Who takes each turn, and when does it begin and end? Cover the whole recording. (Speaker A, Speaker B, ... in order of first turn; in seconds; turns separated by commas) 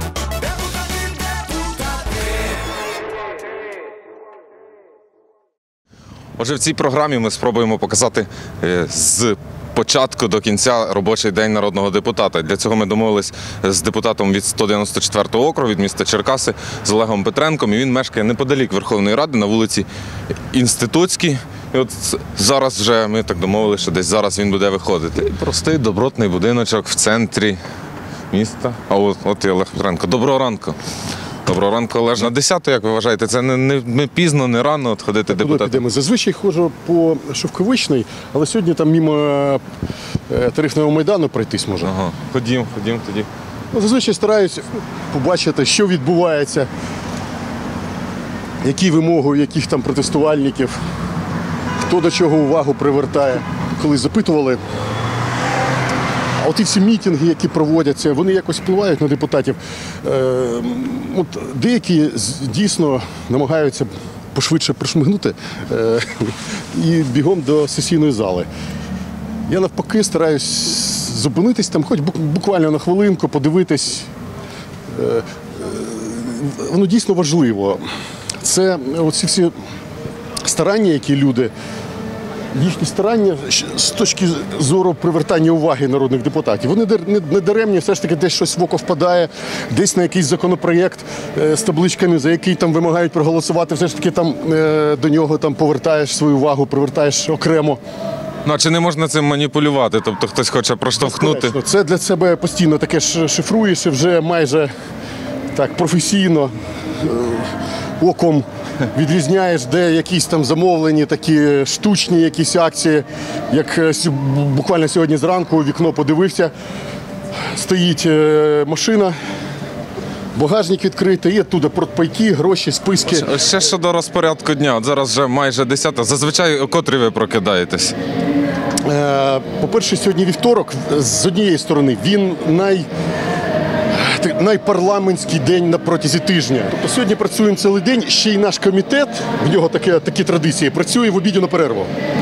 Speaker A: 0.4-2.8, Speaker B: 6.4-19.9, Speaker B: 20.5-27.6, Speaker B: 28.3-30.8, Speaker B: 31.5-35.8, Speaker C: 35.3-39.6, Speaker C: 40.3-41.9, Speaker B: 41.8-43.3, Speaker C: 43.7-46.7, Speaker C: 48.6-50.8, Speaker C: 51.8-54.6, Speaker C: 56.4-68.5, Speaker C: 69.5-74.1, Speaker C: 74.9-77.9, Speaker C: 78.4-79.5, Speaker C: 80.4-81.5, Speaker C: 82.5-97.8, Speaker B: 98.5-101.5, Speaker C: 101.0-104.7, Speaker C: 105.5-116.5, Speaker C: 117.4-119.2, Speaker C: 120.3-123.3, Speaker B: 123.1-128.0, Speaker C: 128.8-132.9, Speaker C: 133.9-141.9